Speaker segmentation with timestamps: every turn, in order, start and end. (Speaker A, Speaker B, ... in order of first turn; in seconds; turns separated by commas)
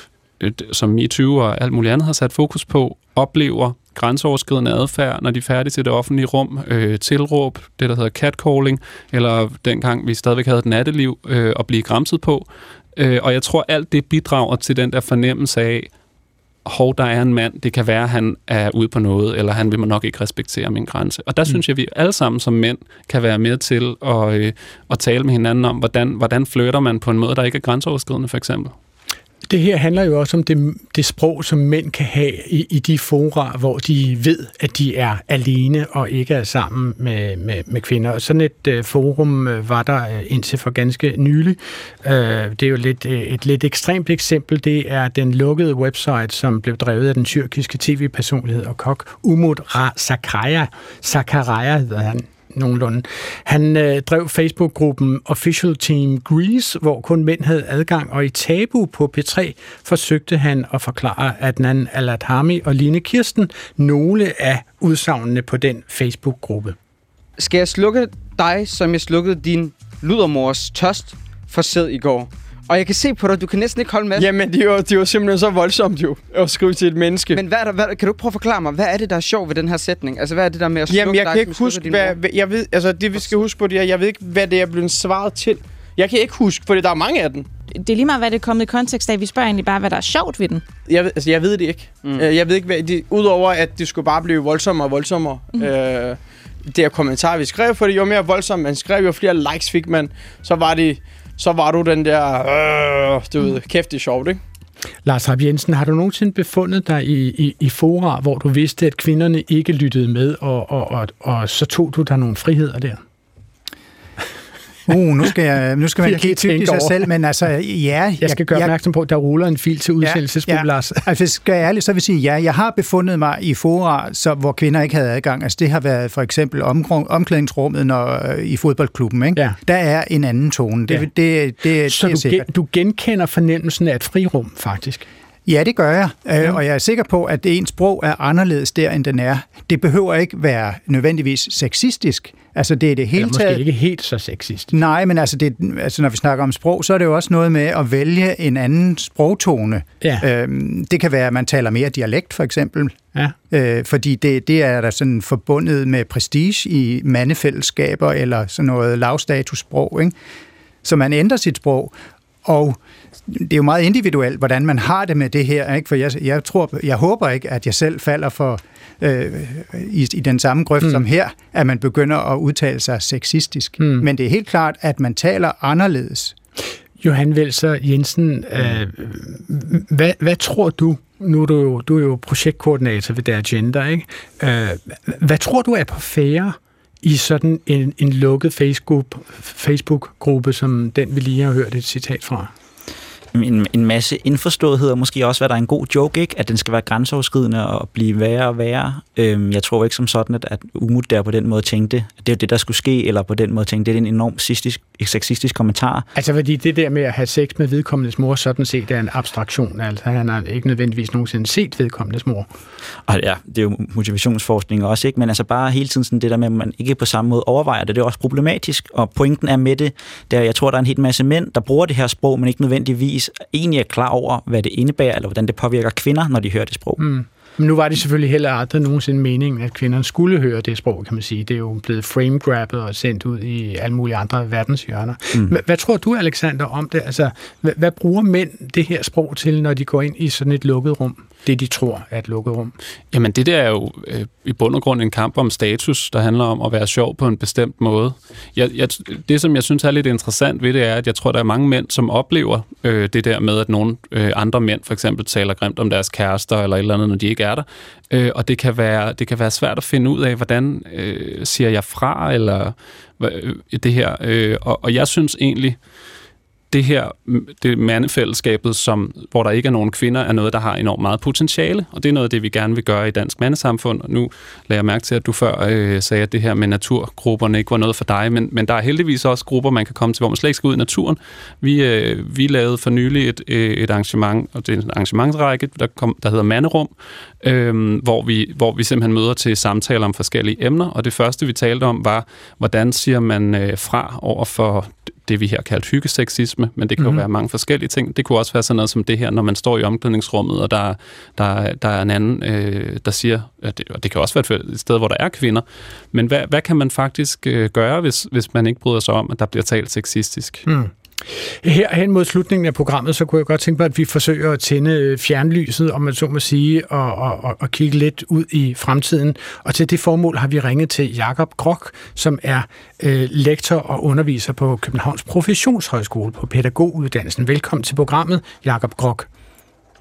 Speaker A: 0.4-15.9, Speaker A: 16.7-28.7, Speaker B: 29.5-66.8, Speaker C: 67.4-74.3, Speaker D: 74.1-77.4, Speaker C: 77.3-82.2, Speaker D: 80.9-87.5, Speaker E: 87.8-90.6, Speaker D: 90.9-104.4, Speaker B: 105.0-113.0, Speaker F: 114.9-118.7, Speaker B: 116.0-117.0, Speaker B: 118.2-121.0, Speaker F: 120.0-132.5, Speaker B: 131.9-135.1, Speaker F: 135.5-143.6, Speaker B: 143.2-144.7, Speaker F: 144.7-152.9, Speaker B: 150.0-150.3, Speaker F: 153.5-160.2, Speaker F: 160.8-161.9, Speaker F: 162.4-176.4, Speaker B: 173.8-174.1, Speaker B: 177.0-192.5, Speaker G: 193.3-206.1, Speaker B: 206.2-212.5, Speaker G: 213.1-227.0, Speaker B: 227.0-242.7, Speaker A: 243.1-265.8, Speaker A: 266.7-310.6, Speaker B: 297.0-297.2, Speaker B: 310.7-329.3